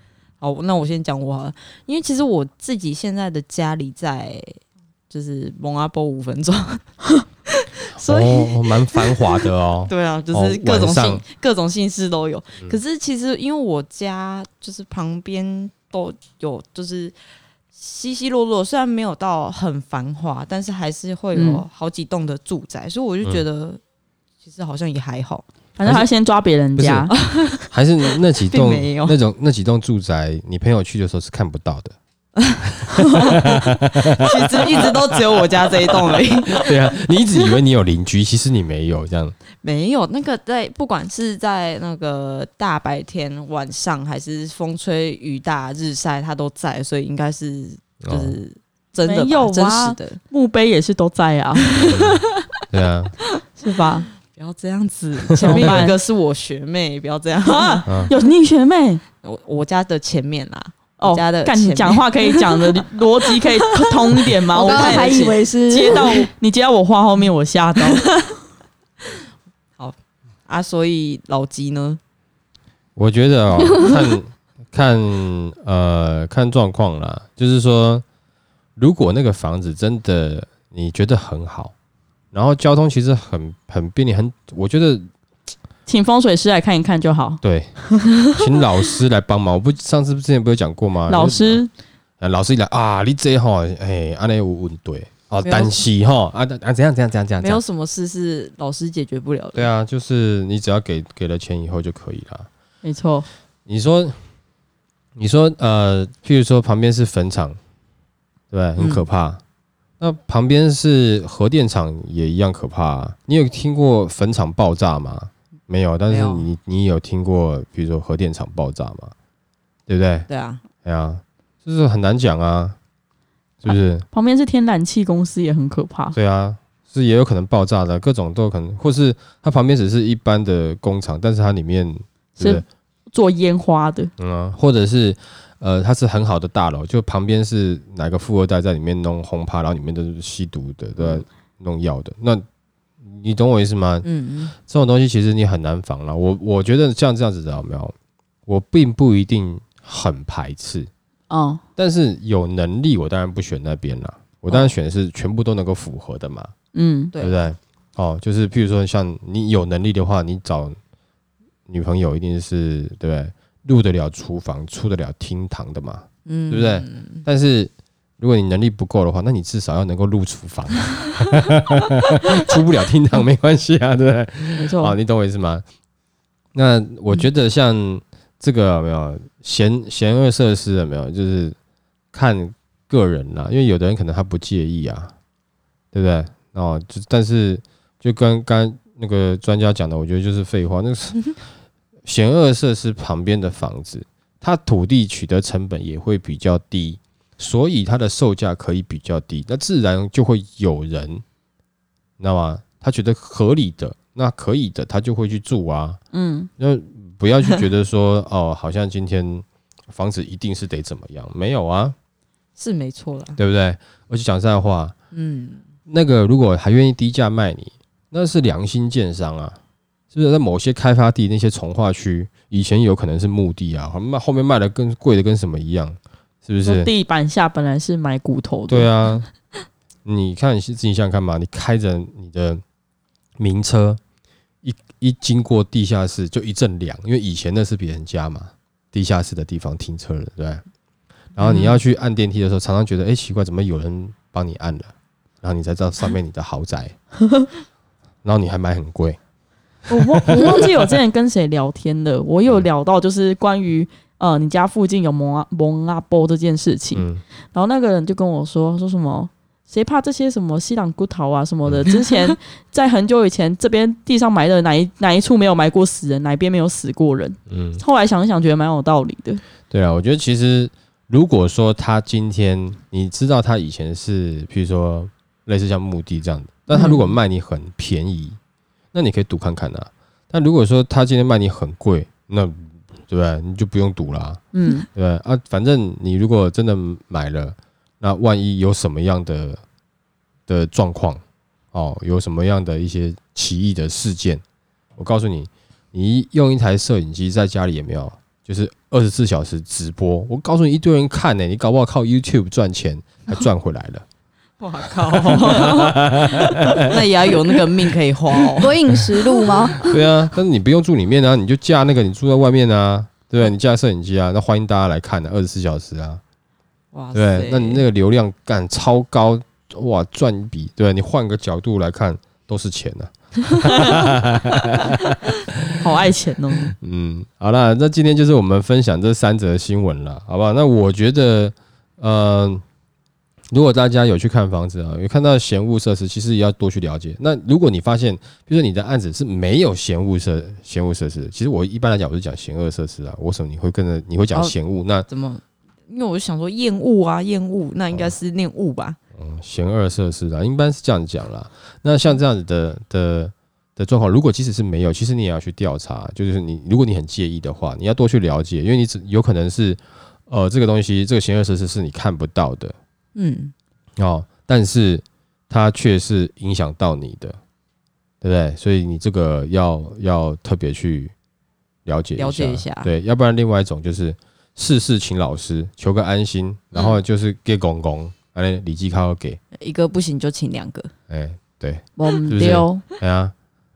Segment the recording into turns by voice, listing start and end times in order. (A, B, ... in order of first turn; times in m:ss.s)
0:00.4-0:04.6 A
0:05.1-0:17.1 A
0:07.9-0:11.2 B
0:17.7-0:23.8 A
0:21.3-0:21.6 C
0:24.4-0:25.4 A
0:25.8-0:27.1 C
0:26.8-0:27.1 B
0:27.1-0:29.2 A
0:27.7-0:32.0 B
0:32.4-0:37.4 A
0:32.6-0:39.3 B
0:39.6-0:50.2 A
0:48.0-0:48.4 B
0:49.0-0:51.7 C
0:51.8-0:52.2 A
0:51.8-0:53.1 B
0:53.6-0:54.1 C
0:54.2-0:57.9 A
0:55.4-0:56.0 C
0:55.4-0:55.8 B
0:57.4-0:59.0 C
0:57.8-0:58.1 B
0:59.2-1:06.3 A
1:01.0-1:08.1 C
1:04.5-1:06.1 D
1:07.8-1:08.3 A
1:10.5-1:12.0 A
1:13.0-1:18.0 B
1:18.8-1:21.7 B
1:22.3-1:25.1 B
1:25.8-1:28.0 C
1:27.4-1:31.6 B
1:31.1-1:31.7 C
1:32.2-1:37.6 B
1:35.4-1:35.8 A
1:37.4-1:39.7 A
1:39.5-1:42.5 B
1:42.8-1:43.3 C
1:43.6-1:44.2 B
1:45.2-1:47.6 B
1:48.5-1:49.4 B
1:48.8-1:49.0 A
1:50.0-1:59.1 B
1:56.1-1:56.5 A
1:59.9-2:00.3 B
2:00.3-2:00.6 A
2:00.8-2:02.8 B
2:03.6-2:04.0 B
2:03.7-2:06.2 C
2:06.1-2:12.6 B
2:12.4-2:14.1 C
2:14.2-2:22.4 B
2:23.0-2:27.9 B
2:24.0-2:24.5 A
2:28.5-2:30.9 B
2:31.3-2:31.6 C
2:31.8-2:36.5 B
2:36.7-2:37.1 C
2:37.2-2:40.8 B
2:41.7-2:55.6 B
2:46.2-2:47.2 A
2:54.5-2:54.9 C
2:56.5-3:01.6 B
3:02.1-3:05.1 B
3:05.9-3:11.4 B
3:12.0-3:21.2 B
3:22.2-3:26.0 B
3:26.1-3:26.5 C
3:26.6-3:32.0 B
3:32.6-3:33.4 A
3:33.4-3:34.9 B
3:35.1-3:35.6 A
3:35.9-3:39.6 B
3:40.1-3:46.9 B
3:46.6-3:48.9 C
3:48.7-3:49.3 B
3:50.0-3:52.6 B
3:53.4-3:54.0 B
3:54.6-4:00.6 B
4:01.4-4:07.0 B
4:08.2-4:09.2 B
4:09.9-4:29.4 C
4:10.2-4:10.5 B
4:16.9-4:17.2 B
4:27.5-4:27.8 B
4:29.7-4:38.4 B
4:36.7-4:37.0 C
4:38.9-4:44.4 B
4:44.5-4:44.9 C
4:44.9-4:49.6 B
4:50.5-4:51.2 B
4:51.7-4:54.4 B
4:55.0-5:04.0 B
5:04.6-5:08.8 A
5:04.9-5:07.7 B
5:08.6-5:09.9 D
5:09.8-5:16.2 B
5:16.9-5:17.8 A
5:17.1-5:25.7 B
5:23.6-5:24.0 C
5:25.8-5:26.7 C
5:26.7-5:32.6 B
5:33.5-5:45.1 B
5:45.1-5:49.0 A
5:49.2-6:02.8 B
6:03.1-6:03.5 A
6:04.0-6:07.4 B
6:08.2-6:11.1 B
6:11.8-6:19.4 B
6:12.2-6:12.9 A
6:19.5-6:20.9 A
6:21.1-6:23.3 B
6:22.0-6:22.8 C